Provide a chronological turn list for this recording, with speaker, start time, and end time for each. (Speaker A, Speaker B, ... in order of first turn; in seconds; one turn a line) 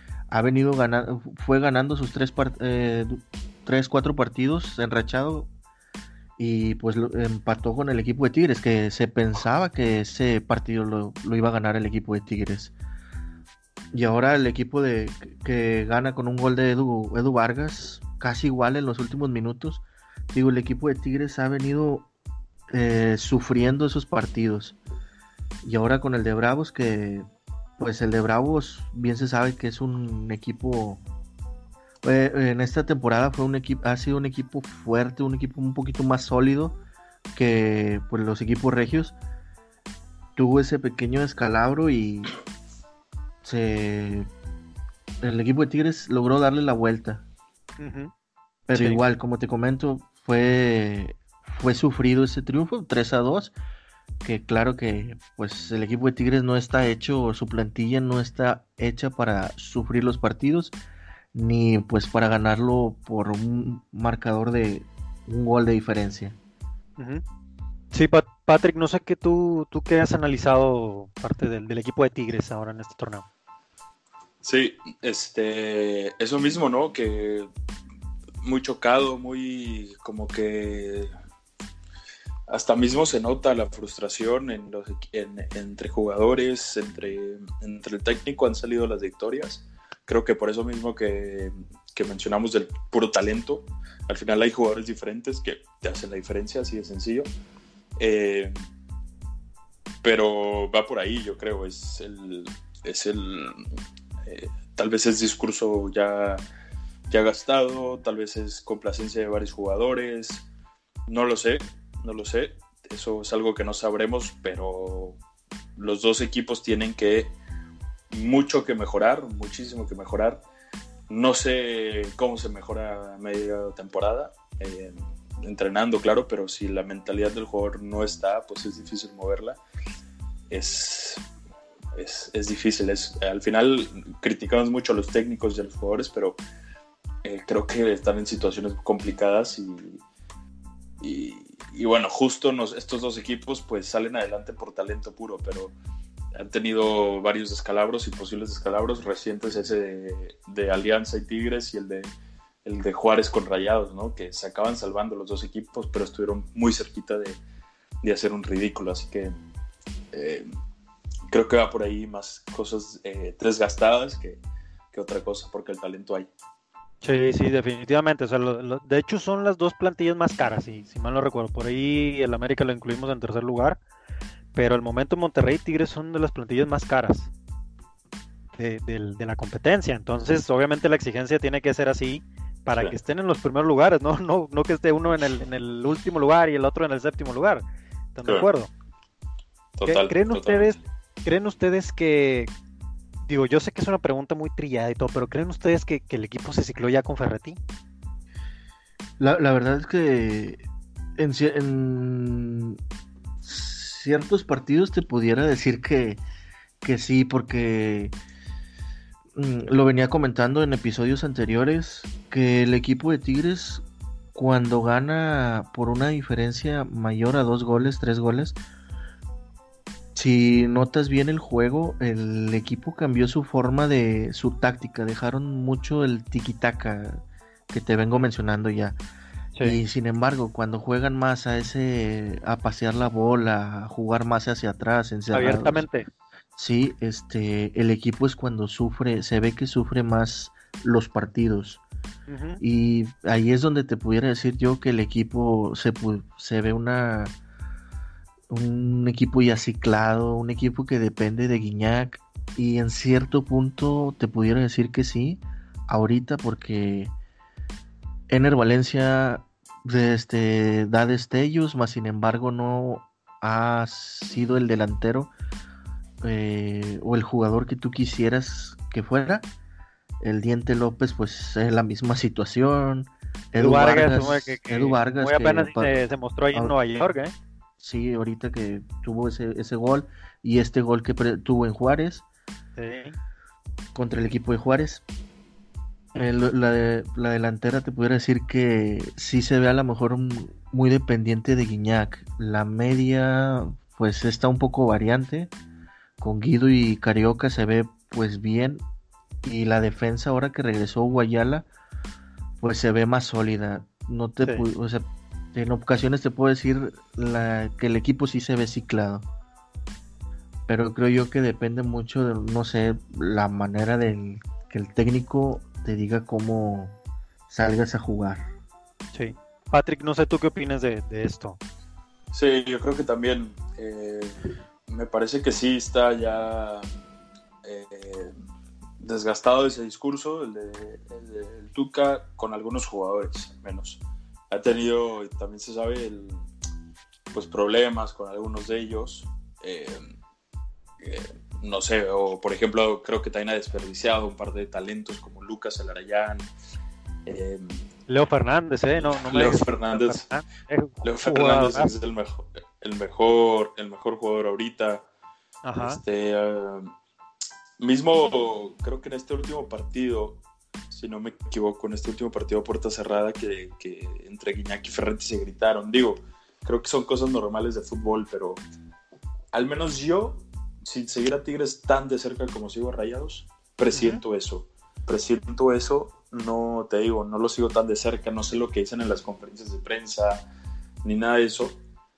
Speaker A: 0.3-5.5
Speaker A: 6.4-12.7
Speaker A: 13.9-22.1
Speaker A: 22.7-24.8
Speaker A: 25.6-27.3
Speaker A: 27.8-31.0
Speaker A: 32.0-36.8
Speaker A: 37.4-39.2
Speaker A: 40.4-42.4
Speaker A: 43.4-44.3
Speaker A: 45.2-47.3
Speaker B: 47.8-48.1
Speaker A: 48.7-53.5
Speaker B: 48.7-49.0
Speaker A: 54.2-60.8
Speaker A: 61.3-66.4
Speaker B: 67.0-67.2
Speaker B: 67.9-73.2
Speaker C: 74.4-77.5
Speaker C: 78.4-81.1
Speaker C: 82.5-97.3
Speaker C: 98.0-98.5
Speaker C: 100.0-103.6
Speaker C: 104.3-106.4
Speaker C: 107.1-110.5
Speaker C: 111.1-115.2
Speaker C: 115.8-117.4
Speaker C: 118.1-120.5
Speaker C: 121.1-129.6
Speaker C: 130.5-131.3
Speaker C: 131.9-136.4
Speaker C: 137.2-140.0
Speaker C: 141.0-145.8
Speaker C: 146.4-152.1
Speaker C: 152.7-157.4
Speaker C: 158.0-159.3
Speaker C: 160.1-160.5
Speaker C: 161.3-166.3
Speaker B: 167.0-173.8
Speaker B: 174.5-177.3
Speaker B: 178.6-188.7
Speaker C: 189.8-190.8
Speaker B: 189.8-192.5
Speaker B: 193.3-197.6
Speaker A: 199.2-200.6
Speaker A: 201.2-202.8
Speaker A: 203.4-206.2
Speaker A: 206.8-208.2
Speaker A: 209.3-218.6
Speaker A: 220.2-229.0
Speaker A: 229.6-235.9
Speaker B: 235.3-236.1
Speaker A: 236.6-241.8
Speaker B: 242.3-242.6
Speaker A: 242.6-247.3
Speaker A: 248.5-257.1
Speaker A: 258.3-265.3
Speaker A: 266.2-269.5
Speaker A: 270.2-276.8
Speaker B: 273.6-277.3
Speaker A: 277.8-282.2
Speaker B: 282.8-283.2
Speaker A: 283.9-285.0
Speaker A: 286.1-295.5
Speaker A: 296.2-298.9
Speaker A: 299.4-301.7
Speaker A: 302.6-309.3
Speaker A: 310.7-317.0
Speaker A: 317.5-318.5
Speaker B: 319.1-321.6
Speaker C: 322.3-324.4
Speaker C: 324.9-326.9
Speaker C: 327.6-328.3
Speaker C: 329.0-336.5
Speaker C: 337.3-340.0
Speaker C: 341.0-346.5
Speaker C: 347.3-347.8
Speaker B: 348.1-351.9
Speaker C: 349.0-350.2
Speaker C: 351.0-355.1
Speaker B: 355.6-356.0
Speaker C: 355.8-356.9
Speaker C: 357.8-368.6
Speaker C: 369.5-380.4
Speaker B: 373.9-374.2
Speaker C: 381.0-381.8